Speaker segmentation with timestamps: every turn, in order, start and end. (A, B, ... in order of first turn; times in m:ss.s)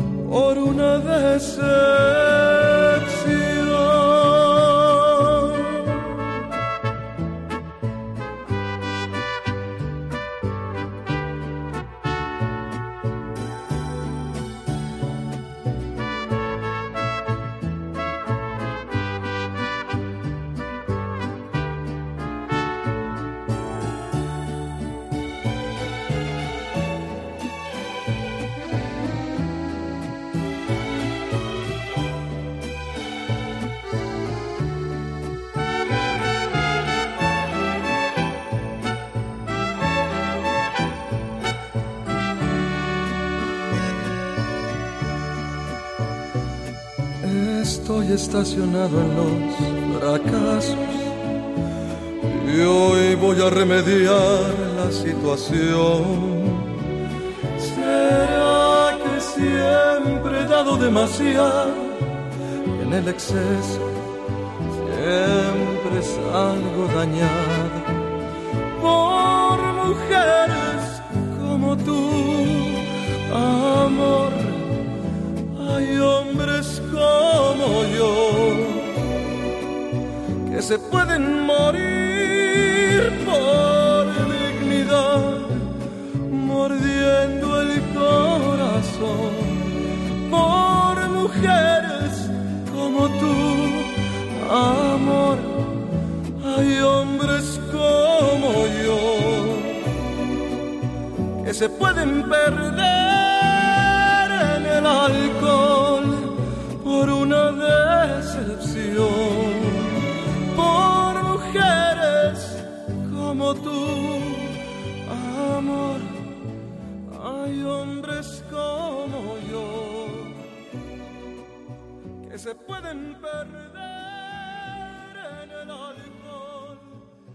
0:00.2-0:06.0 A
0:47.2-0:51.2 A
0:52.2-0:56.8 A
0:57.6-1:02.1 A
1:02.7-1:04.0 A
1:04.7-1:07.9 A
1:08.7-1:14.8 A
1:15.6-1:19.0 A
1:20.4-1:25.7 A
1:26.3-1:29.7 A
1:30.2-1:35.7 A
1:36.4-1:39.8 A
1:41.4-1:56.2 A
1:57.1-2:00.5 A
2:02.2-2:07.0 A